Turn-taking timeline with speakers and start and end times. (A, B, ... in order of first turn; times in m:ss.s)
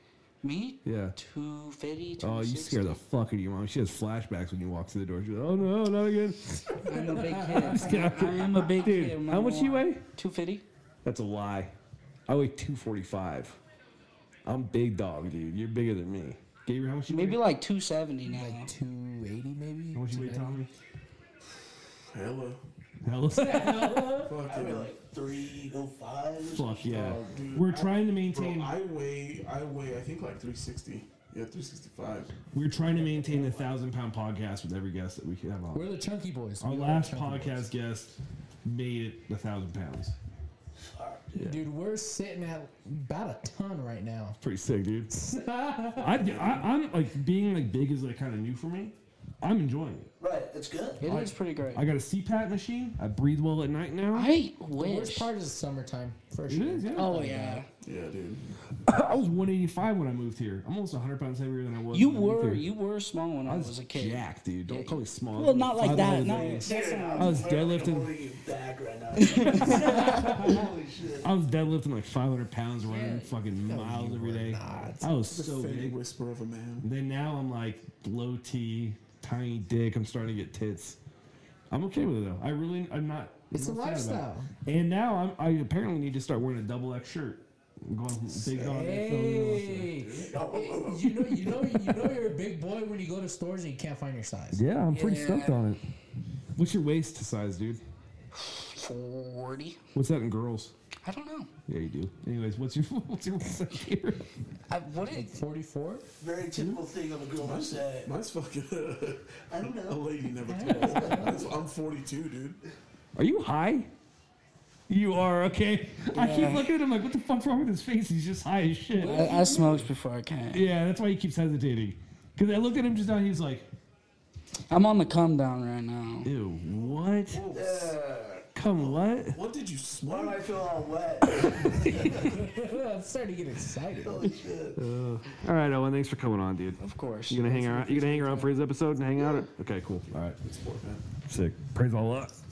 0:00.4-0:03.0 A
0:00.8-0:01.2 B
0:02.2-0:10.0 B
0:06.8-0:10.6 A
0:11.0-0:11.7 B
0:12.3-0:13.6 B
0:14.4-0:17.4 B
0:17.1-0:18.7 A
0:18.3-0:20.6 C
0:19.9-0:20.7 B
0:22.1-0:22.6 D
0:23.0-0:24.1 B
0:23.3-0:24.4 C
0:24.2-0:24.9 D
0:24.4-0:26.9 E
0:26.4-0:28.7 B
0:26.8-0:32.5 D
0:32.5-0:35.9 B
0:32.8-0:33.7 E
0:35.7-0:37.7 C
0:36.6-0:40.2 B
0:40.8-0:41.4 E
0:41.4-0:41.6 B
0:41.4-0:44.4 C
0:44.4-0:45.1 B
0:45.1-0:46.2 C
0:46.0-0:50.1 B
0:46.1-0:46.6 D
0:50.2-0:51.0 E
0:51.0-0:51.8 A
0:51.0-0:54.3 B
0:54.1-0:55.3 A
0:54.8-0:57.6 C
0:56.5-0:57.1 B
0:56.9-0:57.7 A
0:57.8-0:58.4 D
0:58.9-1:02.7 B
1:01.9-1:07.6 A
1:03.4-1:08.1 B
1:06.5-1:11.3 E
1:09.2-1:10.5 A
1:09.6-1:10.6 B
1:11.2-1:16.0 B
1:12.9-1:13.3 A
1:13.7-1:15.1 C
1:15.3-1:16.9 D
1:16.8-1:21.0 B
1:21.7-1:29.8 B
1:23.5-1:24.5 C
1:28.5-1:34.6 C
1:29.8-1:30.3 D
1:30.2-1:31.2 E
1:34.5-1:35.8 B
1:34.9-1:35.6 A
1:36.6-1:37.8 B
1:38.3-1:39.8 A
1:39.9-1:40.7 B
1:41.0-1:41.5 A
1:41.7-1:44.2 B
1:44.7-1:45.4 A
1:45.1-1:46.0 C
1:46.2-1:48.1 E
1:47.4-1:52.6 D
1:49.5-1:50.2 E
1:50.4-1:51.4 C
1:50.8-1:51.6 E
1:53.1-1:53.9 B
1:54.9-1:59.4 B
1:56.1-1:56.7 A
1:58.9-1:59.9 C
1:59.0-2:00.6 A
2:00.5-2:03.7 B
2:04.7-2:06.3 A
2:06.2-2:07.5 B
2:07.4-2:07.9 D
2:07.5-2:08.5 E
2:08.6-2:09.4 B
2:08.8-2:10.4 D
2:10.0-2:12.4 E
2:11.5-2:12.2 B
2:12.2-2:14.2 C
2:14.0-2:14.8 E
2:14.2-2:20.4 B
2:16.8-2:18.3 A
2:17.5-2:18.4 C
2:20.1-2:21.0 D
2:21.3-2:22.4 B